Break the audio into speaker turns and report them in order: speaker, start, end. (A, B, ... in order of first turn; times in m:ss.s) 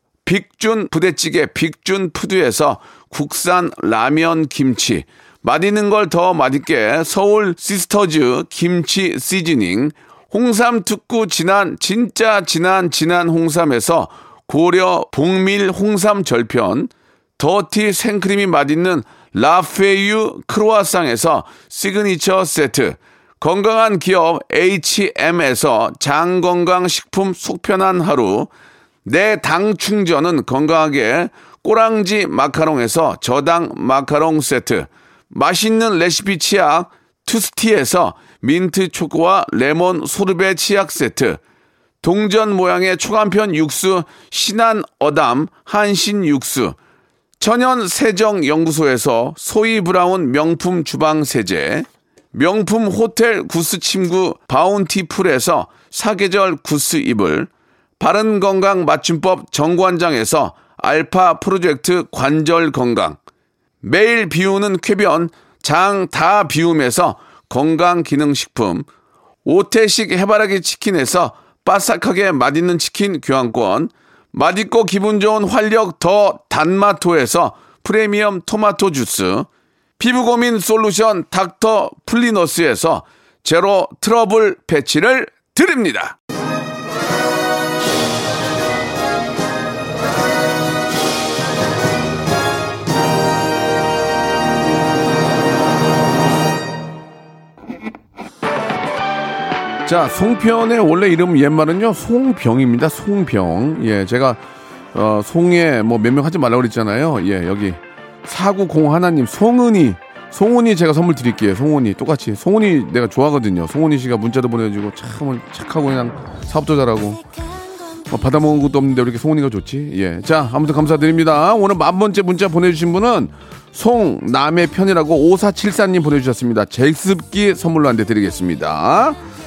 0:00.2-0:28.5 A
0:29.0-0:41.4 A
0:42.0-0:46.8 A
0:47.4-1:03.2 A
1:03.8-1:08.9 A
1:09.4-1:19.5 A
1:20.0-1:26.2 A
1:39.8-1:44.4 A
1:44.9-1:57.2 A
1:58.1-2:09.2 A